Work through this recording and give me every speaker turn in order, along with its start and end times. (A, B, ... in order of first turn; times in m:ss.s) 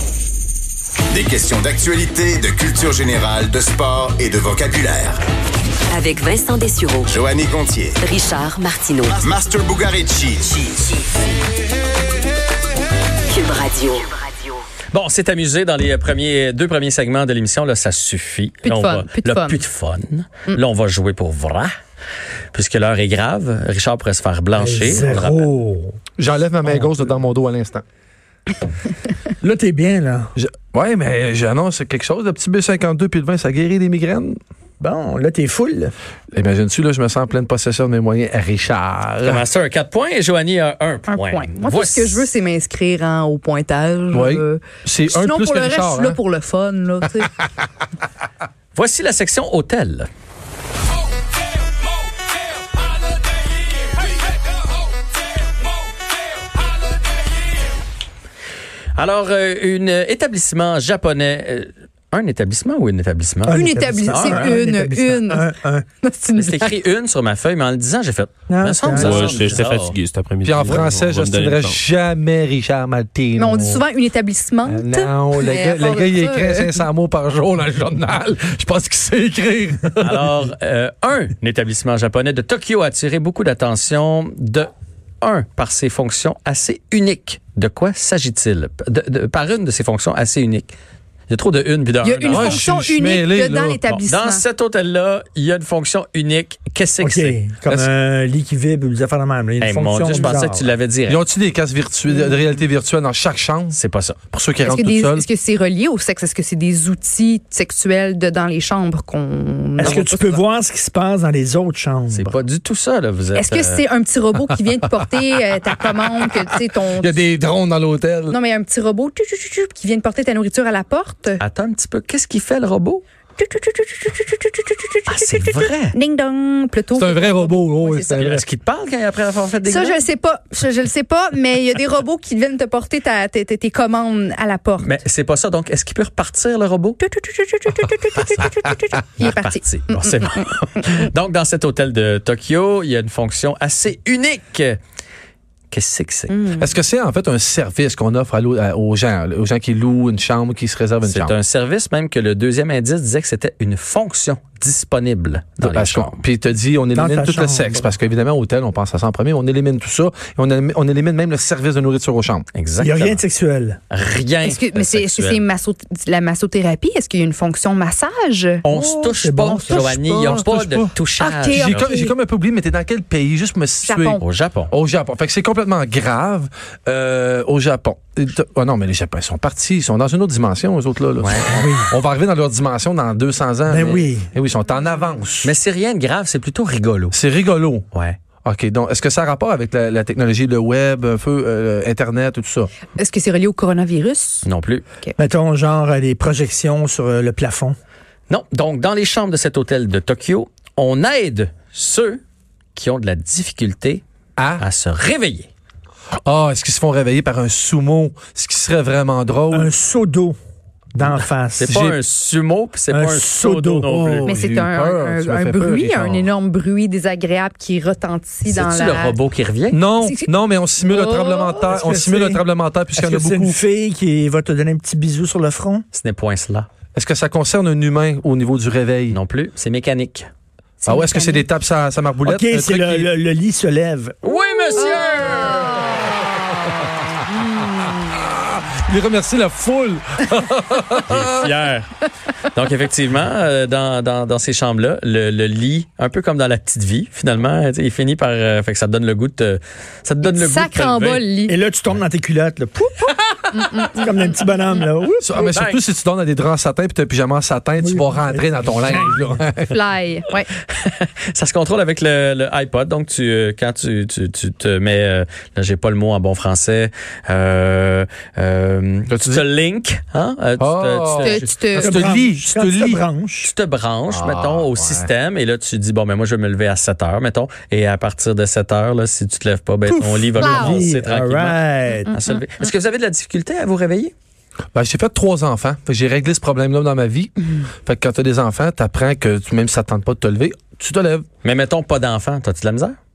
0:01.1-0:05.2 A
0:05.9-0:07.1 B
0:07.0-0:08.0 A
0:08.0-0:09.3 B
0:09.1-0:10.6 A
0:13.3-0:14.1 B
0:14.9-0:21.7 C
0:18.6-0:19.6 D
0:22.5-0:25.5 C
0:24.6-0:26.0 E
0:26.2-0:27.8 F
0:29.4-0:30.3 E
0:30.4-0:34.4 F
0:34.8-0:35.9 E
0:36.3-0:39.4 F
0:39.2-0:42.2 C
0:41.1-0:47.3 D
0:44.1-0:46.2 F
0:48.7-0:50.1 C
0:58.9-1:03.6 C
1:03.4-1:05.8 E
1:03.5-1:05.5 D
1:04.1-1:04.6 C
1:06.0-1:06.7 D
1:06.3-1:10.0 C
1:08.5-1:09.6 E
1:08.9-1:11.8 G
1:10.4-1:13.8 F
1:13.4-1:16.8 D
1:14.6-1:20.3 F
1:20.0-1:24.7 C
1:25.2-1:30.7 C
1:31.3-1:32.7 C
1:32.0-1:34.4 D
1:32.3-1:33.8 F
1:33.9-1:37.4 C
1:37.0-1:40.7 E
1:39.6-1:41.2 C
1:41.1-1:43.8 F
1:43.7-1:44.2 C
1:44.3-1:45.2 F
1:44.6-1:50.4 D
1:49.8-1:52.3 E
1:52.1-1:53.8 C
1:53.3-1:57.2 D
1:57.0-1:58.4 F
1:58.3-2:01.4 D
2:01.4-2:03.0 C
2:03.4-2:08.3 D
2:05.1-2:05.9 C
2:07.0-2:08.4 F
2:08.2-2:10.0 C
2:09.6-2:14.9 D
2:14.8-2:17.0 C
2:17.0-2:20.5 D
2:19.2-2:24.8 C
2:25.7-2:26.6 C
2:26.3-2:26.6 D
2:26.6-2:31.3 F
2:31.0-2:36.2 C
2:35.6-2:42.4 F
2:36.9-2:37.9 E
2:42.5-2:43.2 C
2:42.8-2:43.8 E
2:43.9-2:45.4 C
2:44.4-2:48.6 D
2:48.6-2:51.9 C
2:48.7-2:50.3 E
2:49.7-2:50.9 F
2:51.2-2:52.1 D
2:51.5-3:05.5 F
2:53.8-2:54.2 D
2:54.2-2:54.7 C
3:01.2-3:01.6 C
3:01.5-3:01.9 E
3:03.7-3:04.3 E
3:05.4-3:07.1 C
3:07.1-3:07.8 F
3:07.9-3:08.2 C
3:08.4-3:12.7 F
3:13.0-3:14.4 D
3:14.4-3:14.8 C
3:15.2-3:17.8 E
3:18.3-3:22.2 C
3:22.8-3:24.0 C
3:24.4-3:24.6 F
3:24.6-3:25.5 C
3:26.2-3:29.7 F
3:29.5-3:30.4 E
3:30.9-3:31.7 E
3:31.5-3:34.3 C
3:31.6-3:32.0 F
3:32.9-3:33.9 E
3:33.9-3:36.3 F
3:34.2-3:39.2 D
3:38.5-3:39.8 C
3:39.7-3:43.6 F
3:40.0-3:40.3 D
3:40.8-3:41.8 D
3:41.7-3:42.4 E
3:42.9-3:45.8 E
3:45.9-3:46.7 C
3:46.9-3:49.2 F
3:49.1-3:50.3 C
3:50.8-3:53.1 F
3:50.8-3:51.4 D
3:52.2-3:54.2 E
3:54.2-3:56.0 C
3:55.1-3:55.8 D
3:58.0-4:01.5 F
4:01.0-4:01.9 C
4:02.5-4:11.2 C
4:10.2-4:11.6 D
4:11.5-4:13.1 E
4:13.5-4:14.1 D
4:13.9-4:15.4 E
4:15.2-4:19.8 F
4:15.5-4:15.8 C
4:17.8-4:19.2 E
4:19.7-4:20.5 D
4:20.7-4:31.5 C
4:29.1-4:29.4 F
4:30.6-4:33.0 F
4:31.2-4:32.0 D
4:31.8-4:33.5 E
4:33.4-4:44.1 C
4:34.1-4:35.1 F
4:39.9-4:42.1 E
4:40.4-4:40.8 D
4:42.1-4:42.4 D
4:44.7-4:47.3 F
4:47.8-4:51.2 F
4:51.4-4:53.0 C